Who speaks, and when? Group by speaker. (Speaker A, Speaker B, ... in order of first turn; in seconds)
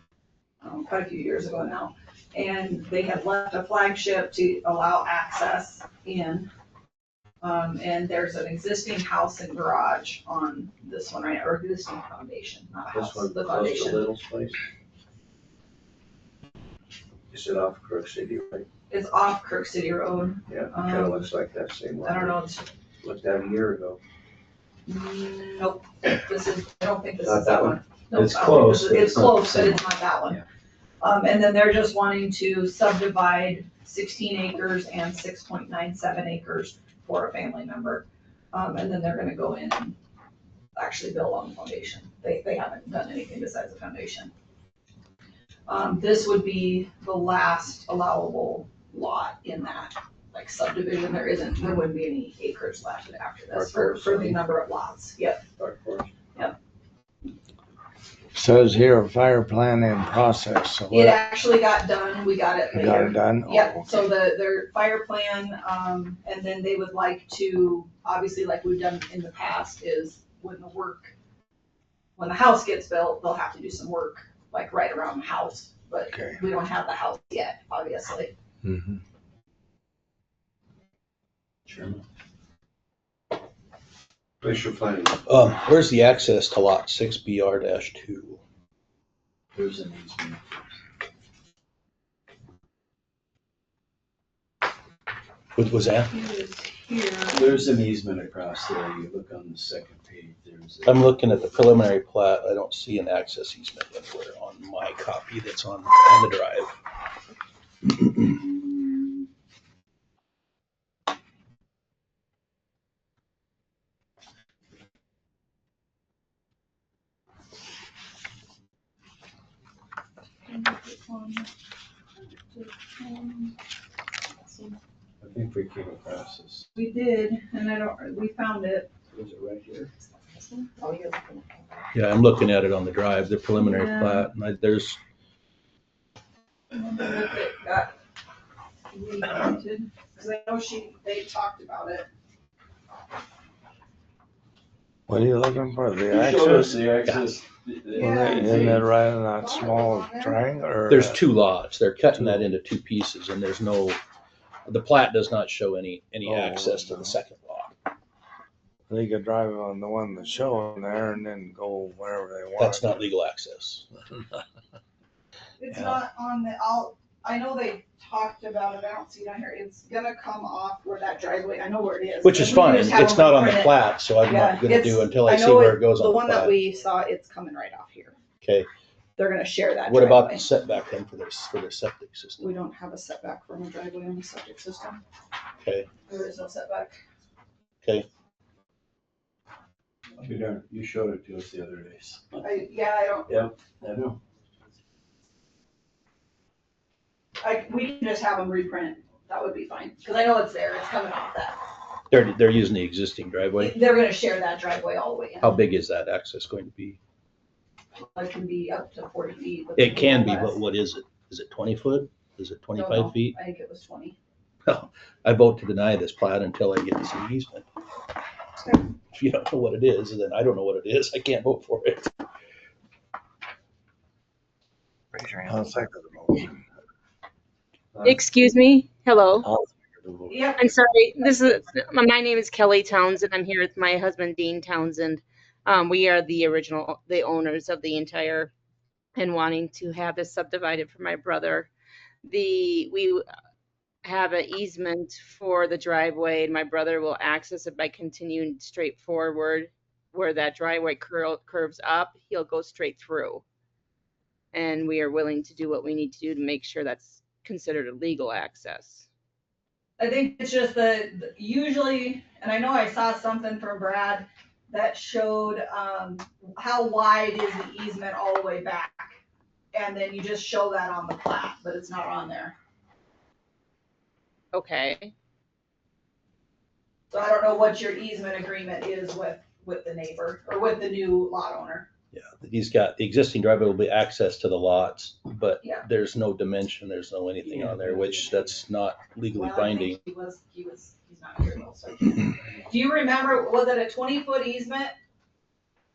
Speaker A: 0.6-6.5, 7.4-14.1, 18.9-21.3, 22.0-22.7, 24.9-30.4, 31.0-40.0, 40.8-44.3, 45.7-55.4, 60.9-71.1, 72.2-78.3, 96.1-97.7, 120.5-121.5, 122.5-123.6, 124.4-124.8, 126.8-128.9, 130.0-131.9, 133.5-134.3, 136.7-137.9, 138.9-142.1, 147.9-150.4, 165.6-178.2, 179.2-180.5, 182.4-185.0, 186.1-186.9, 192.4-193.4, 197.4-201.6, 203.6-205.6, 208.0-210.6, 212.8-214.2, 230.3-230.7, 260.0-269.2, 269.7-272.6, 277.1-281.9, 289.3-294.9
Speaker B: 12.9-14.6, 17.3-18.7, 20.5-22.4, 23.0-24.0, 27.2-27.8, 53.5-54.4, 55.6-56.1, 84.4-85.2
Speaker C: 28.1-29.8, 85.3-88.4, 95.6-96.1, 100.8-106.8, 107.8-108.4, 129.1-129.9, 131.9-135.0, 147.0-147.4, 150.9-154.0, 154.7-157.7, 162.6-163.9, 172.2-176.6, 178.4-178.7, 179.9-182.5, 185.6-185.9, 202.1-203.8, 205.4-207.0, 209.8-213.4, 214.7-217.7, 219.1-222.1, 282.1-290.0
Speaker D: 58.3-61.2, 62.7-64.1, 76.1-76.4, 78.7-79.0, 145.1-146.8, 147.9-151.2, 152.2-152.4, 156.2-157.2, 158.9-163.0, 225.2-226.6, 229.4-230.4
Speaker E: 81.7-82.0, 89.5-90.8, 97.3-101.7, 125.2-126.7, 146.1-148.9, 190.2-192.7, 193.3-194.2, 287.4-288.6
Speaker F: 228.0-229.5, 230.6-238.5, 239.2-241.7, 242.2-243.2, 244.0-253.4, 254.5-259.1, 274.5-275.1